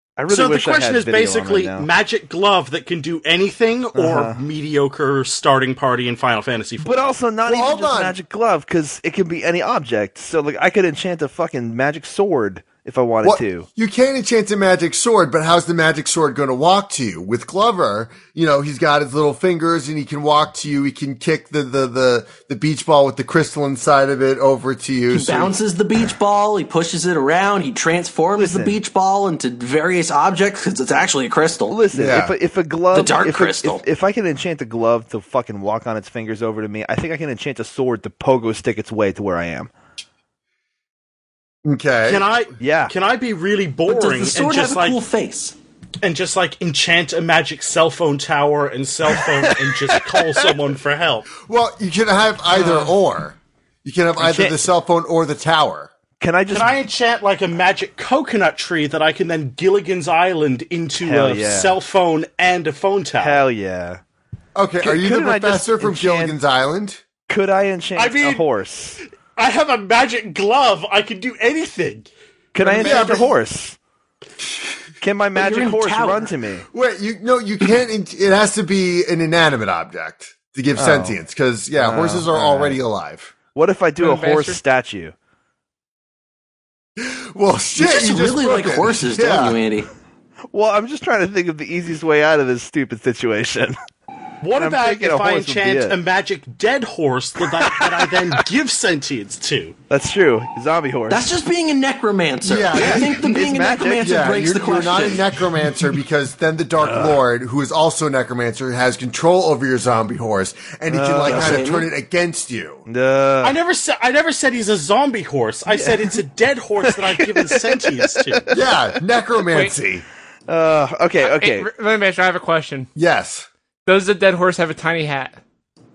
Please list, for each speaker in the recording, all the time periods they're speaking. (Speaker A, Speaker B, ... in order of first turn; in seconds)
Speaker A: 0.2-1.9, 3.9-4.4, 6.8-13.7, 28.4-28.8, 31.7-39.7, 42.6-42.9, 49.1-50.5, 52.5-52.9, 54.2-54.6, 56.2-56.7, 61.0-61.8, 63.2-64.0, 64.8-66.4, 67.3-69.0, 72.5-73.8, 75.0-76.7, 80.8-81.2, 81.8-82.8, 83.5-85.1, 90.5-93.8, 94.5-96.0, 97.6-98.4, 99.9-101.3, 102.8-104.1, 106.8-107.2, 110.9-111.7, 112.9-113.6, 115.7-116.2, 116.8-118.7, 120.5-121.7
Speaker B: 0.3-7.0, 42.0-45.0, 46.0-51.3, 56.5-63.4, 68.0-68.4, 69.3-73.2, 94.4-99.8, 113.4-118.5
Speaker C: 7.5-8.2, 13.2-25.6, 31.9-32.3, 41.6-42.2, 51.4-55.9, 64.5-67.0, 72.8-73.3, 76.7-83.3, 87.0-89.6, 102.4-103.2, 104.0-112.8, 118.5-120.0, 122.9-123.5
Speaker D: 25.1-31.8, 32.9-33.8, 43.9-45.5, 75.3-76.3, 87.8-89.9, 101.1-105.2, 111.2-111.9
Speaker E: 84.0-84.6, 119.5-119.7, 121.2-122.9, 123.8-125.4